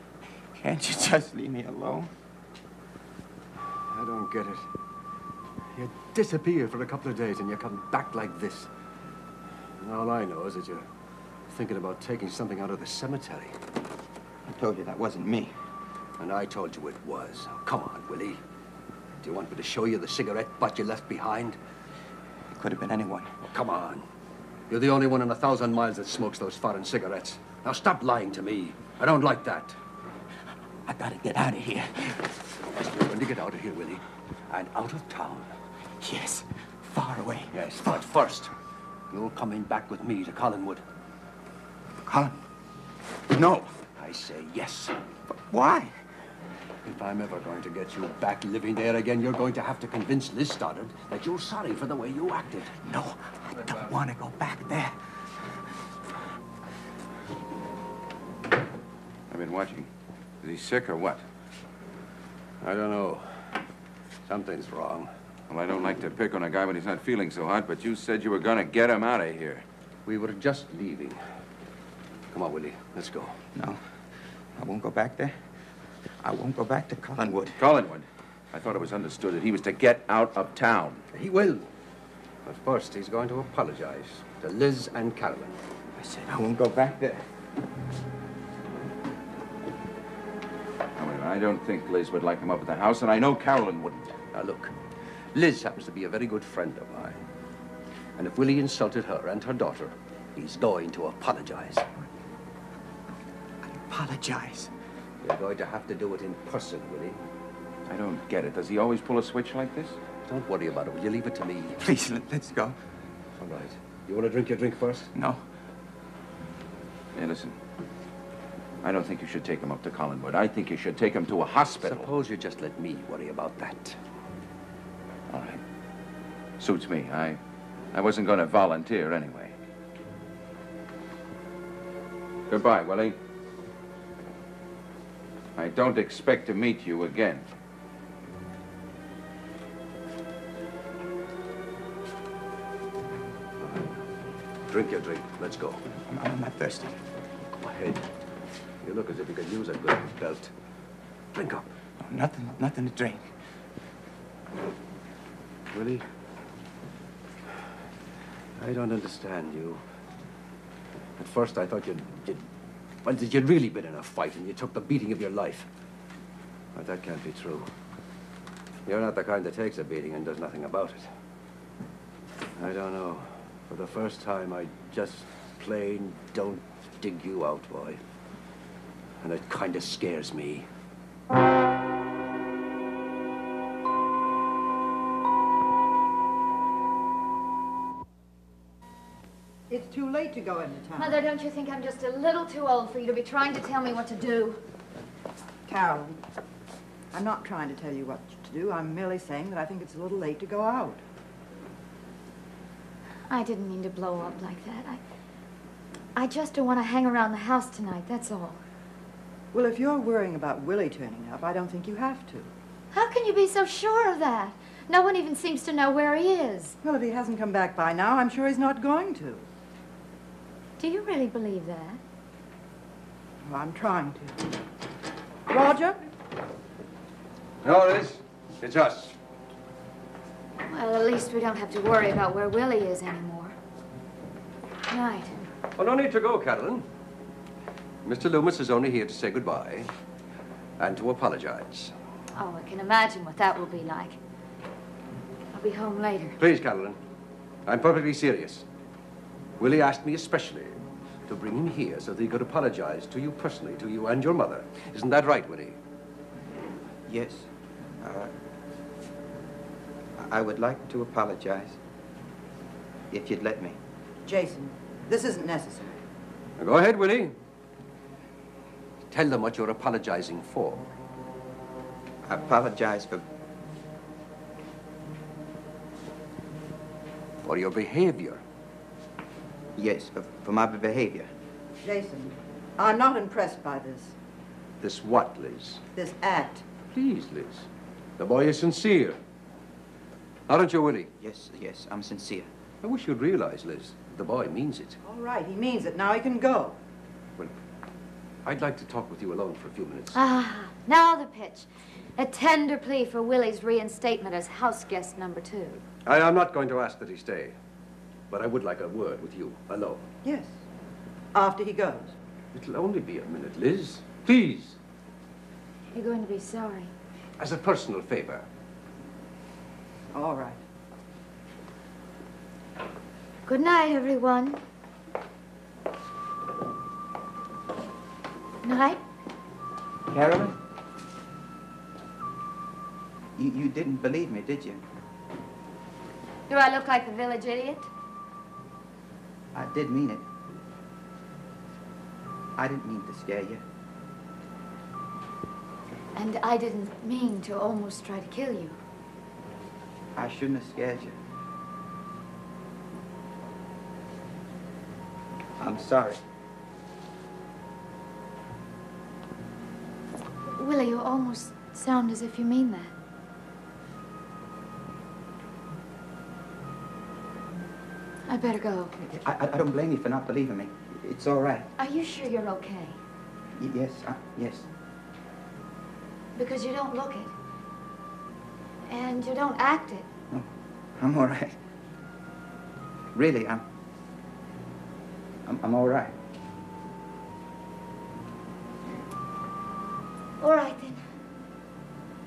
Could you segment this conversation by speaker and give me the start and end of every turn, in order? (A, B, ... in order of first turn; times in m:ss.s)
0:00.6-0:02.1 A
0:03.9-0:04.7 B
0:05.7-0:08.7 B
0:09.8-0:10.9 B
0:11.5-0:13.6 B
0:14.5-0:15.6 A
0:16.2-0:18.4 B
0:19.2-0:21.6 B
0:22.5-0:23.4 A
0:23.5-0:24.0 B
0:24.7-0:29.8 B
0:30.9-0:32.3 A
0:32.6-0:35.5 B
0:36.0-0:38.0 A
0:37.5-0:38.5 B
0:39.1-0:40.8 B
0:42.0-0:42.4 A
0:43.3-0:43.7 A
0:44.0-0:45.0 B
0:45.3-0:46.0 A
0:46.8-0:52.8 B
0:52.8-0:55.0 A
0:59.3-0:59.9 C
1:00.4-1:01.2 C
1:02.6-1:03.6 B
1:04.3-1:05.1 B
1:05.5-1:09.6 C
1:10.1-1:11.2 B
1:12.3-1:13.4 B
1:13.6-1:13.8 A
1:14.6-1:15.4 A
1:16.2-1:17.6 A
1:17.6-1:21.0 C
1:21.1-1:21.7 B
1:22.4-1:25.6 B
1:26.0-1:27.2 A
1:31.0-1:34.2 C
1:34.3-1:34.7 B
1:35.3-1:37.2 B
1:38.2-1:41.9 B
1:43.6-1:44.7 A
1:45.2-1:47.2 B
1:47.9-1:50.0 C
1:50.3-1:51.8 B
1:51.8-1:52.8 A
1:53.4-1:55.1 B
1:55.2-1:55.4 A
1:57.2-1:57.6 C
1:58.8-2:02.1 C
2:01.8-2:04.0 B
2:05.3-2:05.6 C
2:06.6-2:07.4 C
2:07.9-2:09.6 C
2:12.5-2:13.2 C
2:15.6-2:17.4 C
2:23.6-2:24.0 B
2:24.7-2:25.8 B
2:26.0-2:27.0 A
2:27.6-2:28.1 B
2:28.8-2:30.5 B
2:31.3-2:31.7 B
2:32.0-2:33.3 A
2:35.7-2:36.1 B
2:38.6-2:39.8 B
2:41.2-2:42.5 B
2:43.0-2:45.7 B
2:46.8-2:47.7 B
2:48.9-2:51.1 B
2:52.6-2:58.0 B
2:59.2-3:00.7 B
3:09.7-3:11.2 D
3:11.0-3:14.6 E
3:15.7-3:16.2 D
3:17.1-3:21.0 D
3:23.3-3:25.0 E
3:26.2-3:28.6 E
3:29.5-3:32.5 D
3:32.9-3:36.8 E
3:36.8-3:39.4 D
3:40.8-3:42.0 E
3:43.4-3:44.5 D
3:45.5-3:46.0 D
3:47.6-3:49.2 B
3:50.7-3:53.6 E
3:54.9-3:55.4 E
3:55.8-3:56.9 B
3:58.0-3:59.9 B
4:00.8-4:01.9 B
4:02.4-4:04.2 E
4:05.5-4:06.4 E
4:06.4-4:07.0 B
4:07.7-4:08.7 B
4:09.6-4:15.8 B
4:17.1-4:17.5 A
4:18.0-4:18.3 A
4:20.2-4:21.8 A
4:23.1-4:23.8 A
4:24.3-4:26.0 D
4:26.6-4:27.4 B
4:29.1-4:30.9 B
4:32.2-4:33.3 A
4:37.4-4:38.4 B
4:39.8-4:41.3 A
4:41.8-4:44.2 D
4:44.8-4:45.8 B
4:46.0-4:46.6 D
4:46.9-4:49.2 B
4:50.5-4:51.1 B
4:51.2-4:52.5 A
4:52.8-4:55.0 B
4:55.0-4:56.8 D
4:58.4-5:00.2 B
5:00.1-5:05.8 E
5:06.0-5:07.6 B
5:08.3-5:10.1 B
5:10.2-5:10.6 D
5:11.3-5:12.2 D
5:12.5-5:14.8 B
5:15.9-5:16.9 E
5:17.4-5:18.5 B
5:20.1-5:20.6 D
5:23.5-5:24.6 E
5:28.6-5:29.0 E
5:30.1-5:30.6 A
5:33.4-5:34.8 A
5:36.5-5:37.9 E
5:39.5-5:40.3 A
5:42.6-5:43.6 A
5:46.1-5:48.8 E
5:50.2-5:51.2 A
5:55.6-5:56.2 A
6:00.6-6:02.9 E
6:08.3-6:08.9 E
6:09.0-6:11.7 A
6:11.8-6:13.0 E
6:13.6-6:14.7 A
6:16.4-6:17.3 E
6:18.9-6:20.1 E
6:20.3-6:21.6 A
6:23.1-6:23.6 A
6:25.5-6:26.2 A
6:30.4-6:31.0 E